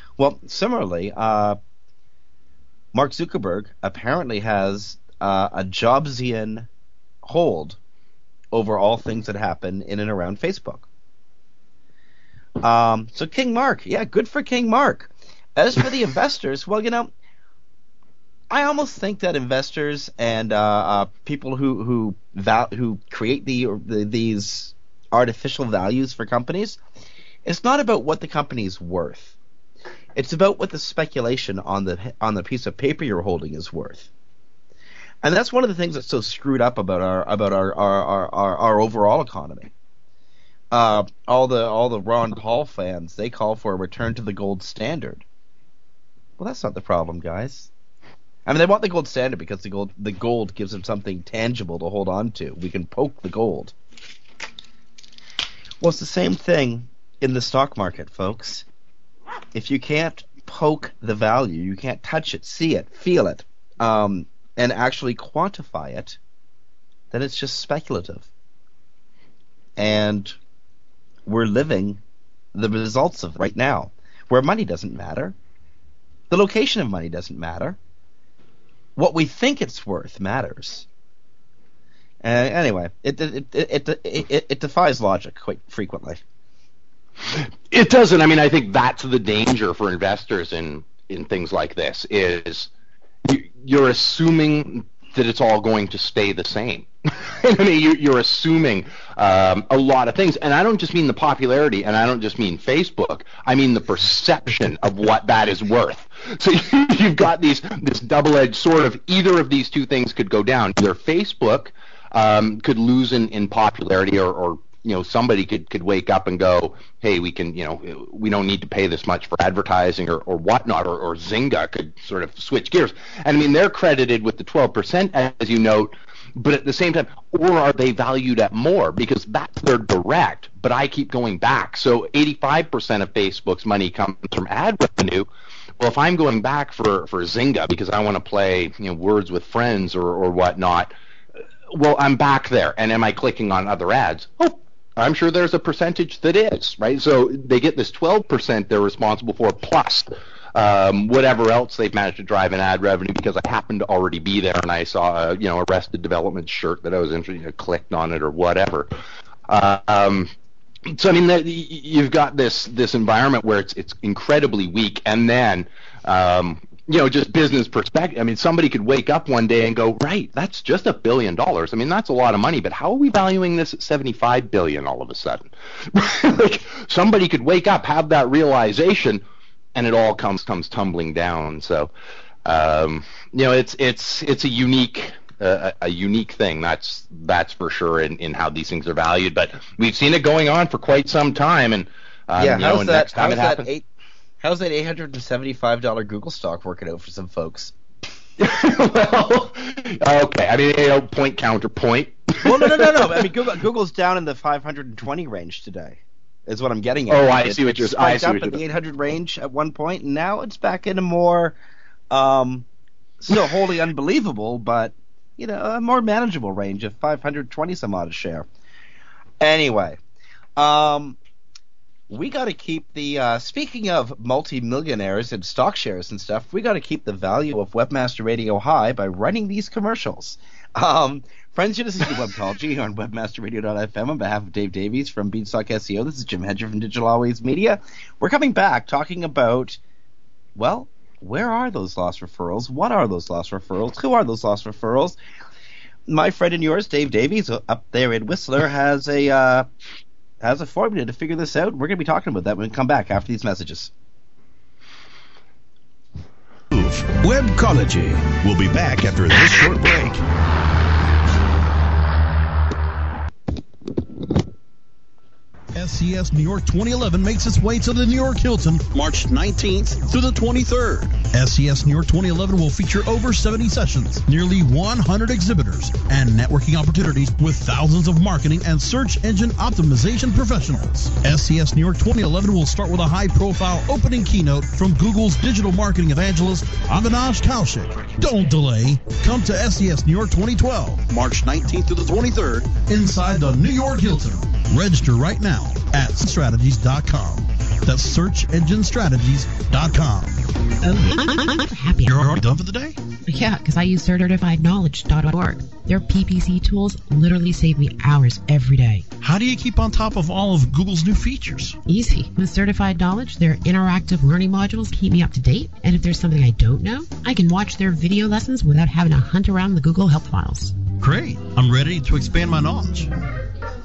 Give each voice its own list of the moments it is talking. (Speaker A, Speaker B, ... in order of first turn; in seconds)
Speaker A: 0.2-1.6, 2.9-6.7, 7.2-7.8, 8.5-10.9, 12.6-17.1, 18.5-26.8, 27.4-29.4, 30.1-34.1, 35.2-39.7, 40.7-45.2, 46.4-47.7, 48.5-53.7, 55.8-58.6, 59.5-66.2, 67.1-68.3, 69.8-70.4, 71.3-72.0, 72.5-75.3, 76.3-77.8, 79.0-80.9, 82.2-86.2, 192.4-193.9, 194.4-197.7, 202.4-211.6, 212.1-212.7, 213.2-218.5, 219.4-220.0, 220.6-221.2, 222.1-239.8, 240.6-245.2, 246.1-249.7, 250.4-253.9
Speaker B: 87.3-92.7, 93.2-135.3, 135.8-140.9, 141.7-158.9, 159.5-160.3, 160.9-179.2, 179.8-181.9, 182.4-193.7, 198.4-203.3, 207.1-208.6
Speaker C: 256.7-260.2
Speaker D: 265.7-301.3, 302.0-303.0, 309.2-311.8, 321.0-323.1
Speaker E: 301.1-302.1, 303.3-309.1, 311.9-320.8